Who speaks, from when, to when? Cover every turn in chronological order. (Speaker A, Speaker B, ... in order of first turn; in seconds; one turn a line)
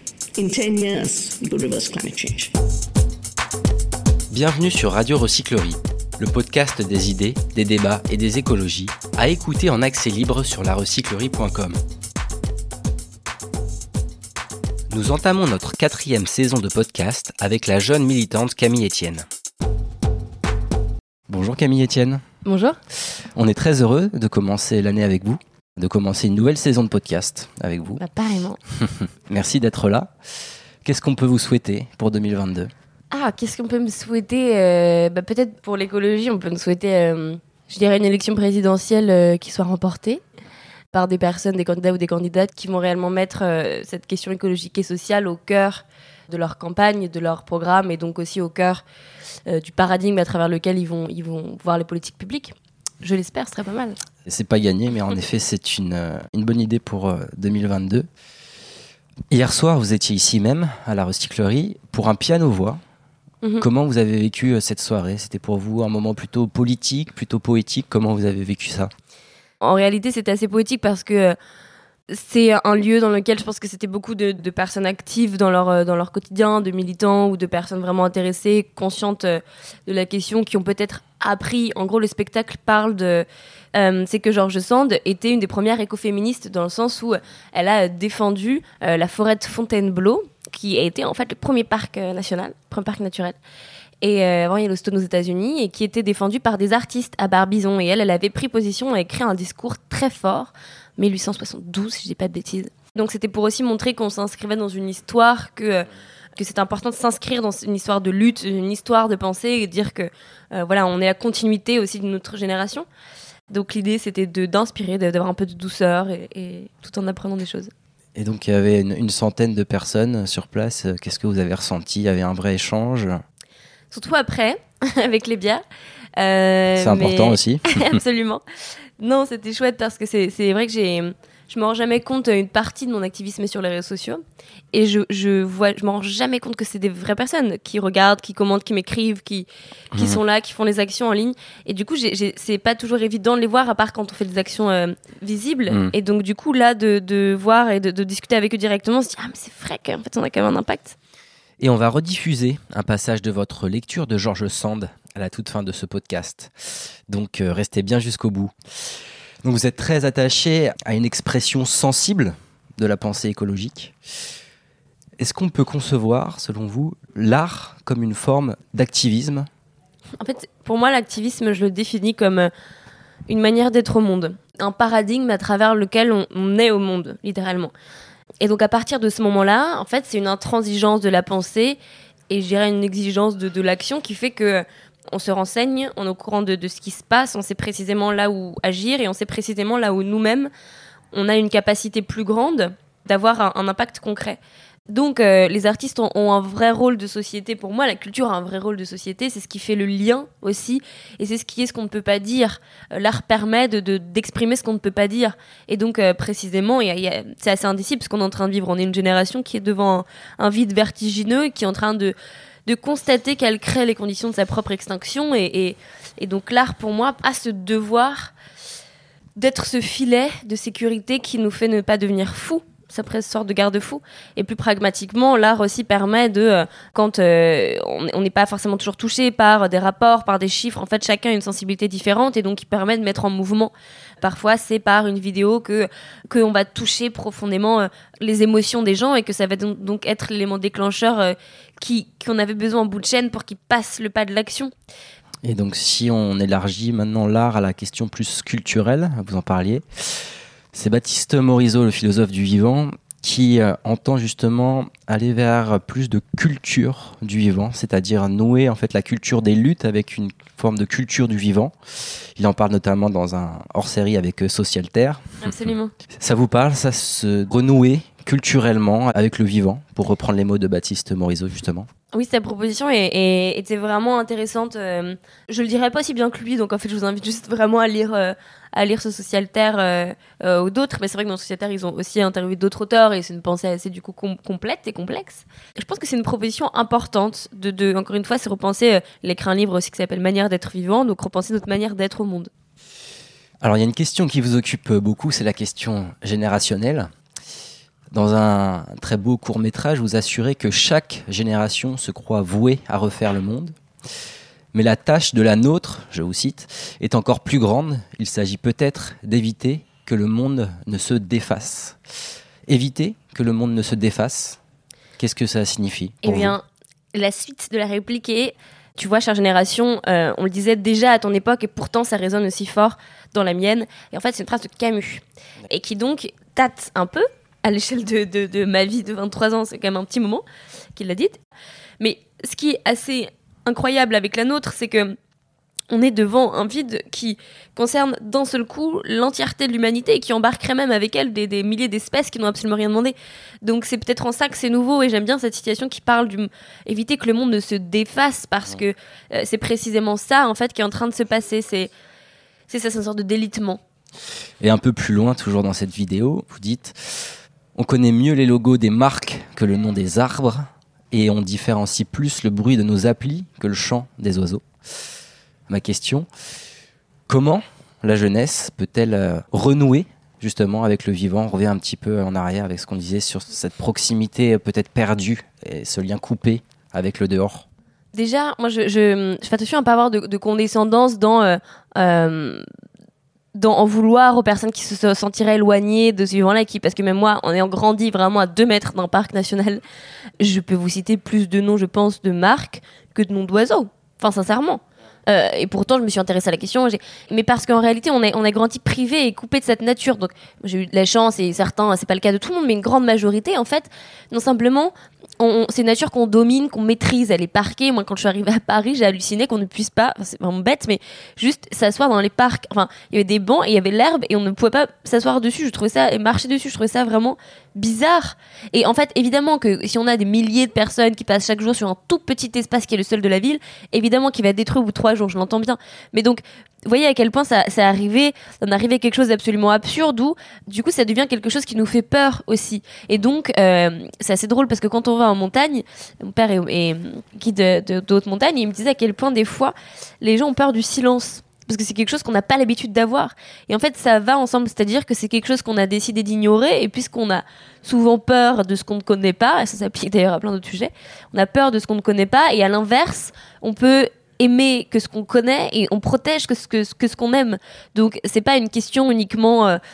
Speaker A: 0.4-2.5
Speaker B: 4.3-11.8
Speaker B: 14.9-19.3
Speaker B: 21.3-22.2
Speaker C: 22.4-22.8
Speaker B: 23.0-28.0
Speaker C: 28.0-28.6
Speaker B: 28.9-30.1
Speaker B: 30.8-32.7
Speaker C: 33.1-40.2
Speaker C: 40.9-48.8
Speaker C: 49.5-54.0
Speaker B: 54.2-58.1
Speaker B: 59.3-62.8
Speaker B: 63.6-68.9
Speaker C: 69.6-71.4
Speaker C: 72.1-93.4
Speaker C: 94.0-105.9
Speaker C: 106.4-112.9
Speaker C: 113.5-117.7
Speaker B: 118.2-123.2
Speaker C: 123.9-125.6
Speaker C: 126.2-128.4
Speaker B: 126.8-128.0
Speaker C: 129.0-134.2
Speaker C: 134.7-151.0
Speaker B: 139.9-140.2
Speaker B: 151.6-158.5
Speaker B: 159.4-163.9
Speaker B: 165.2-169.5
Speaker C: 170.2-172.5
Speaker C: 173.3-177.7
Speaker C: 178.4-181.8
Speaker C: 182.3-190.5
Speaker C: 191.1-212.2
Speaker C: 212.7-218.3
Speaker C: 219.4-244.7
Speaker B: 245.4-271.9
Speaker C: 265.4-265.9
Speaker C: 272.1-292.5
Speaker B: 293.6-297.1
Speaker B: 298.1-303.8
Speaker B: 304.7-312.0
Speaker B: 312.7-314.6
Speaker B: 315.2-316.6
Speaker C: 316.2-330.4
Speaker C: 331.0-331.4
Speaker C: 332.0-335.2
Speaker C: 335.9-351.9
Speaker C: 352.7-353.8
Speaker B: 354.6-364.7
Speaker B: 365.7-366.3
Speaker B: 367.3-377.6
Speaker C: 378.1-382.6
Speaker C: 383.6-389.8
Speaker C: 390.4-459.8